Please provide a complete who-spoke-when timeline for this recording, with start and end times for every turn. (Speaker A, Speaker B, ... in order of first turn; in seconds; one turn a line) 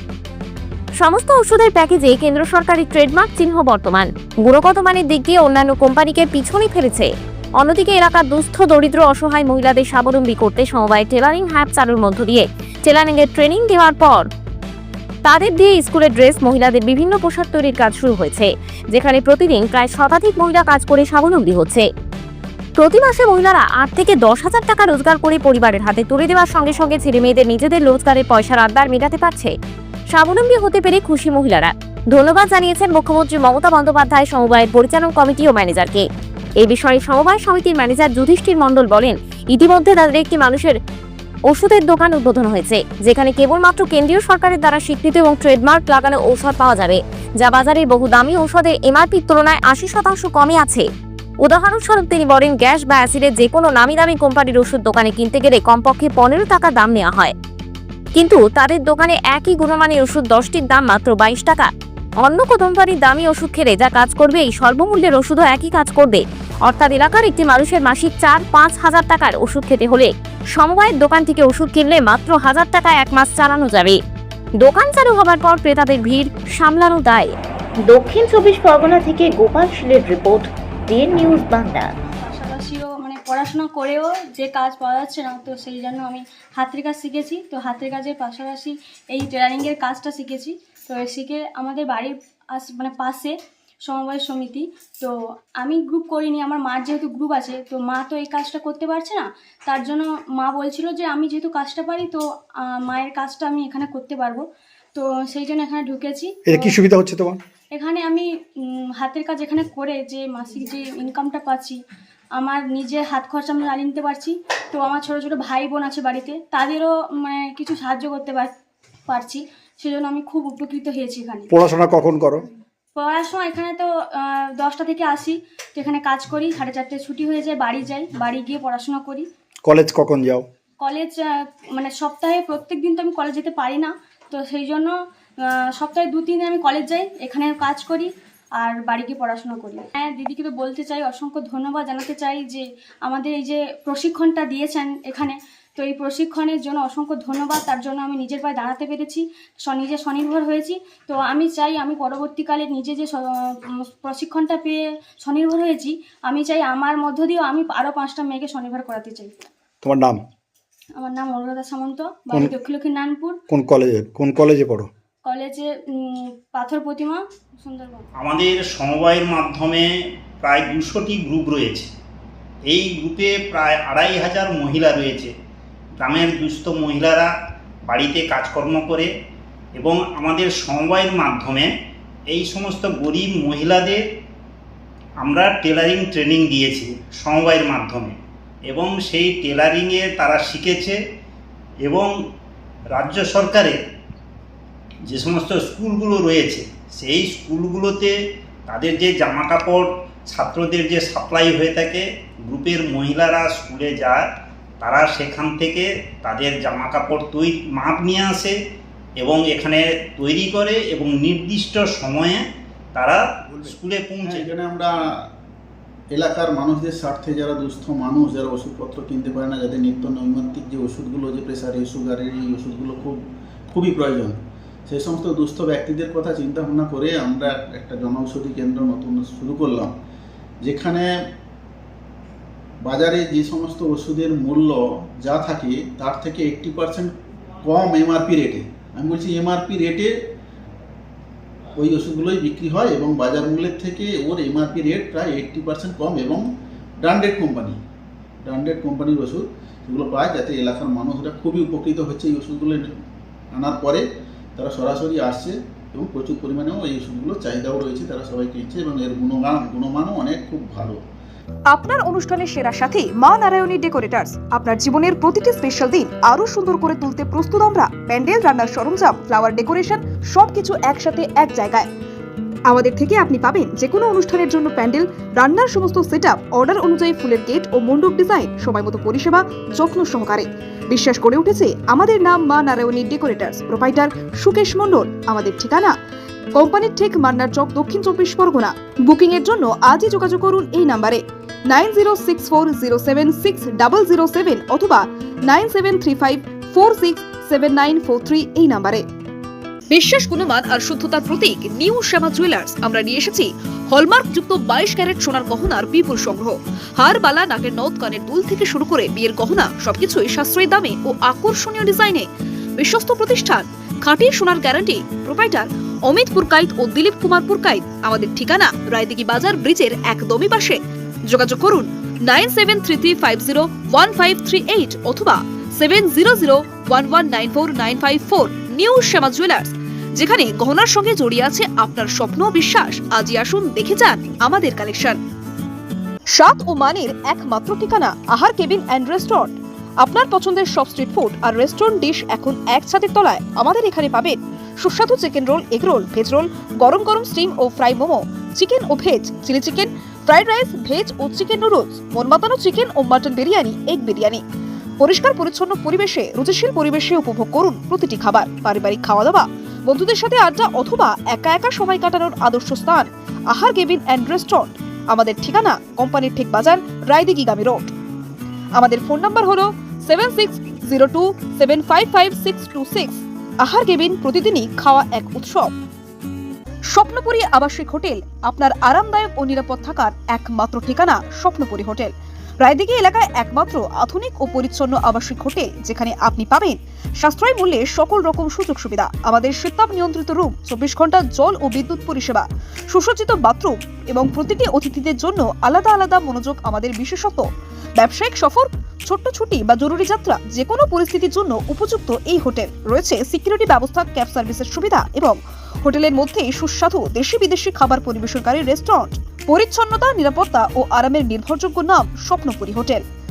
Speaker A: 1.0-14.3
Speaker A: 15.2-21.9
Speaker A: 22.8-29.5
Speaker A: 30.1-36.0
Speaker A: 36.6-40.8
Speaker A: 41.5-50.9
Speaker A: 51.4-57.3
Speaker A: 58.1-61.7
Speaker A: 62.2-74.0
Speaker A: 74.6-77.3
Speaker A: 77.9-81.8
Speaker B: 82.2-93.3
Speaker B: 93.8-106.8
Speaker C: 106.5-107.4
Speaker B: 107.7-111.8
Speaker B: 112.3-118.5
Speaker B: 119.1-121.5
Speaker C: 121.5-122.4
Speaker B: 122.9-129.3
Speaker C: 129.6-130.4
Speaker B: 130.8-159.4
Speaker C: 159.8-160.2
Speaker B: 161.0-163.4
Speaker C: 163.5-164.9
Speaker B: 165.2-168.1
Speaker D: 168.2-169.9
Speaker D: 170.4-171.9
Speaker D: 172.7-175.3
Speaker D: 176.0-177.3
Speaker D: 177.9-179.1
Speaker D: 179.8-181.7
Speaker D: 182.3-184.0
Speaker D: 185.2-188.2
Speaker D: 188.7-190.9
Speaker D: 192.9-193.8
Speaker D: 195.1-198.1
Speaker D: 198.7-204.2
Speaker D: 204.8-208.5
Speaker D: 209.2-214.4
Speaker E: 214.2-214.9
Speaker E: 216.1-223.2
Speaker E: 223.7-229.9
Speaker E: 230.6-231.1
Speaker E: 232.8-237.1
Speaker E: 237.6-240.1
Speaker E: 241.8-246.4
Speaker E: 247.0-247.8
Speaker E: 248.4-252.9
Speaker E: 253.5-254.0
Speaker E: 254.5-261.0
Speaker F: 261.7-271.9
Speaker F: 272.7-285.9
Speaker F: 286.6-299.0
Speaker F: 299.9-320.8
Speaker F: 321.3-335.2
Speaker F: 336.3-354.4
Speaker F: 355.0-367.9
Speaker F: 368.8-375.7
Speaker F: 376.9-397.4
Speaker F: 398.0-413.0